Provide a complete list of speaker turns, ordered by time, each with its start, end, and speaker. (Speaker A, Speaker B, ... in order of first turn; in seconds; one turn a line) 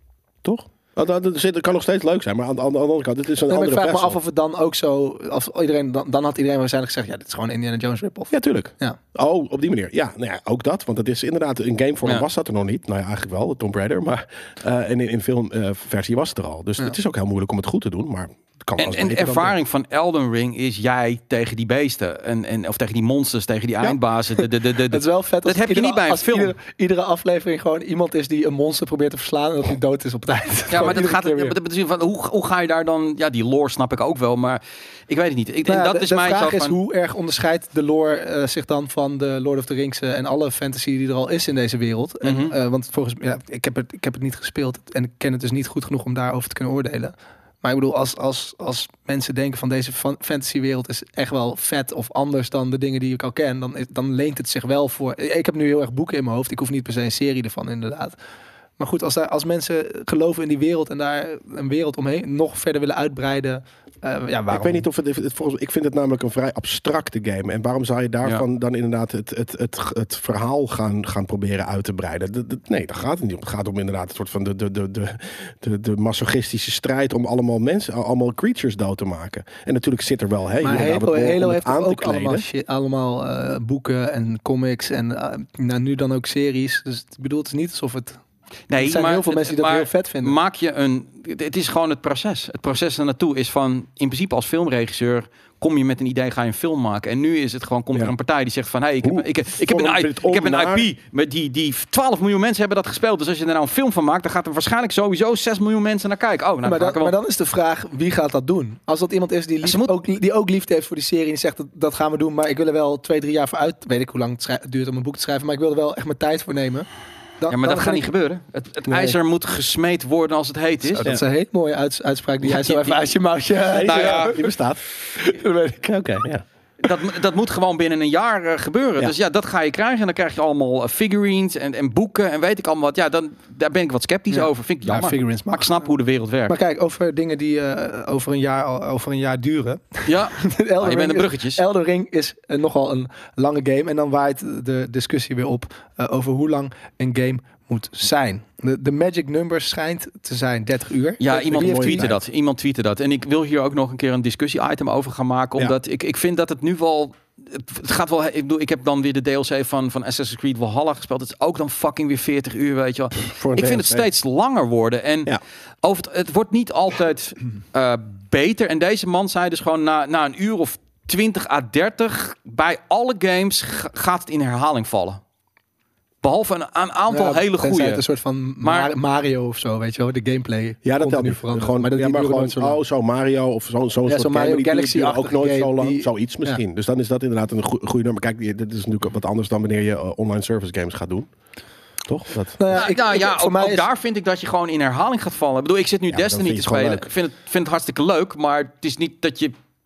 Speaker A: 0.4-4.2
Speaker B: 3.5-9.0
Speaker A: 8.3-19.6
Speaker C: 18.8-26.6
Speaker B: 23.9-31.6
Speaker C: 30.7-36.8
Speaker B: 35.7-58.2
Speaker C: 42.2-42.5
Speaker B: 58.8-64.9
Speaker A: 64.5-82.5
Speaker B: 80.6-88.2
Speaker C: 88.7-107.2
Speaker B: 88.8-90.4
Speaker A: 99.0-100.9
Speaker B: 106.6-116.9
Speaker C: 109.6-109.9
Speaker B: 117.4-118.0
Speaker C: 117.5-121.1
Speaker A: 118.9-119.2
Speaker B: 120.9-124.4
Speaker C: 122.4-123.1
Speaker A: 123.7-124.8
Speaker C: 123.8-124.4
Speaker B: 125.2-125.8
Speaker A: 125.8-126.4
Speaker C: 126.8-136.6
Speaker B: 134.3-135.9
Speaker B: 136.5-152.1
Speaker C: 140.1-141.6
Speaker C: 151.2-175.2
Speaker A: 151.3-152.2
Speaker A: 163.3-164.1
Speaker C: 176.2-178.0
Speaker B: 177.1-182.8
Speaker C: 178.6-178.9
Speaker A: 180.8-191.3
Speaker B: 184.1-186.6
Speaker A: 192.1-192.8
Speaker B: 192.6-193.8
Speaker C: 192.7-199.5
Speaker A: 196.1-197.1